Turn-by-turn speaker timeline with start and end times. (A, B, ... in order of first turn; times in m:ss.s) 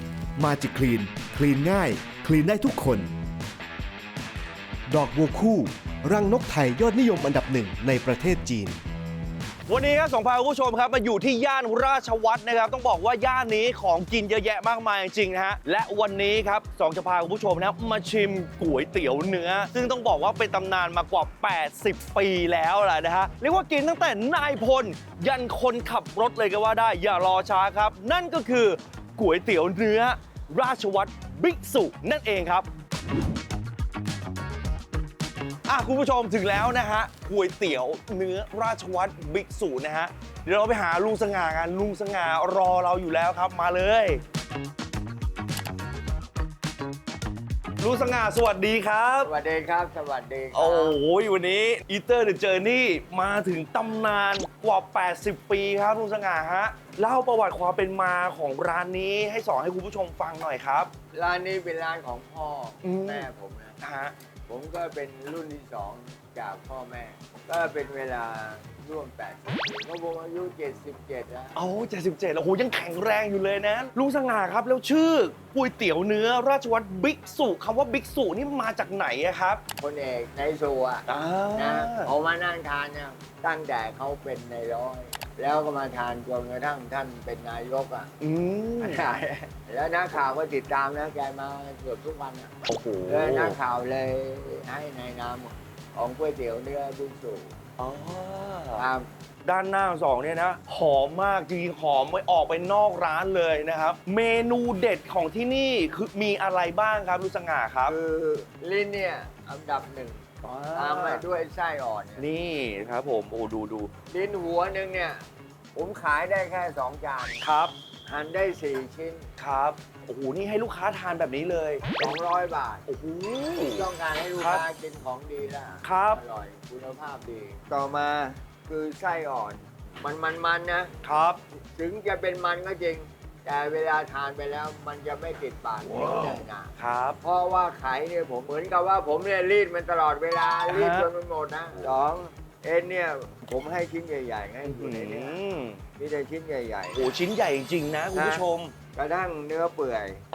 0:00.4-0:03.1 A
0:04.9-0:08.8 A
0:09.7-0:32.7 B
0:35.6-0:44.2 B
0:47.8-0:49.3 B
0:49.2-0:51.0 C
0:50.5-1:00.9 B
1:01.1-1:03.8 C
1:02.8-1:03.3 B
1:03.8-1:04.1 B
1:04.5-1:11.6 C
1:11.6-1:19.6 B
1:19.8-1:28.1 C
1:21.1-1:22.1 B
1:28.2-1:29.0 B
1:28.8-1:32.5 C
1:32.6-1:33.6 B
1:33.1-1:37.5 C
1:37.8-1:38.8 B
1:38.8-1:39.0 C
1:39.4-1:48.0 B
1:47.8-1:50.2 C
1:50.4-1:51.2 B
1:50.7-1:52.2 C
1:52.2-1:53.9 B
1:54.1-1:55.2 C
1:55.7-1:57.4 C
1:57.4-1:57.7 B
1:58.1-1:59.2 C
1:59.4-2:02.1 B
2:02.0-2:02.8 C
2:02.9-2:04.6 B
2:03.6-2:10.9 C
2:05.8-2:06.2 B
2:11.0-2:11.4 B
2:11.7-2:16.7 C
2:16.8-2:17.2 B
2:17.2-2:25.4 C
2:20.7-2:21.1 B
2:24.6-2:25.8 B
2:26.0-2:27.1 C
2:26.9-2:28.7 B
2:28.1-2:30.2 C